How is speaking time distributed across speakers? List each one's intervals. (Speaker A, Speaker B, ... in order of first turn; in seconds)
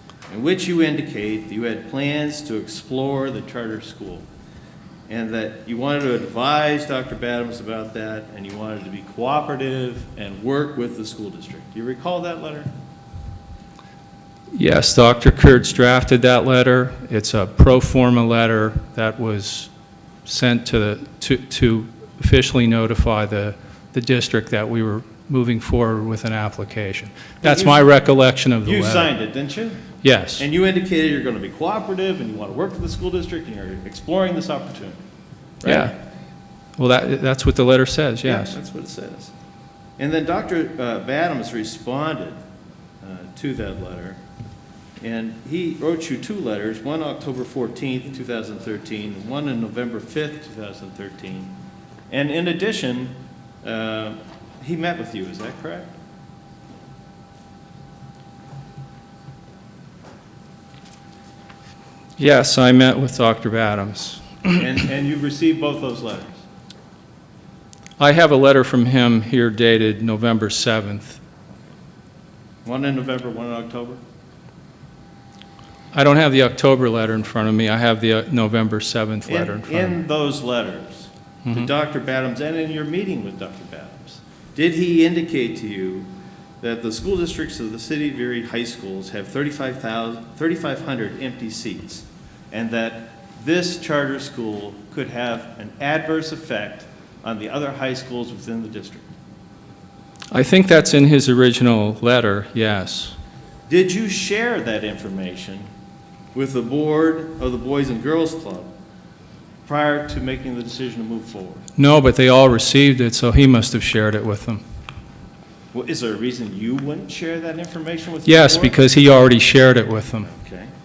Speaker A: 0.3-4.3, 5.1-12.7, 27.4-27.9, 28.6-29.8, 30.4-35.0, 35.6-35.9, 38.2-39.3, 40.0-42.4, 43.0-44.2, 45.0-51.6, 52.1-55.9, 64.5-66.4, 72.7-74.0, 79.3-86.1, 86.6-99.1, 103.7-105.7, 106.3-108.7, 109.7-111.7, 115.7-118.8, 120.2-120.7
Speaker B: 14.6-19.7, 20.2-29.1, 30.0-30.4, 35.6-35.9, 36.8-38.5, 62.2-64.7, 68.0-71.2, 75.9-80.0, 100.3-103.2, 111.8-114.6, 118.3-120.3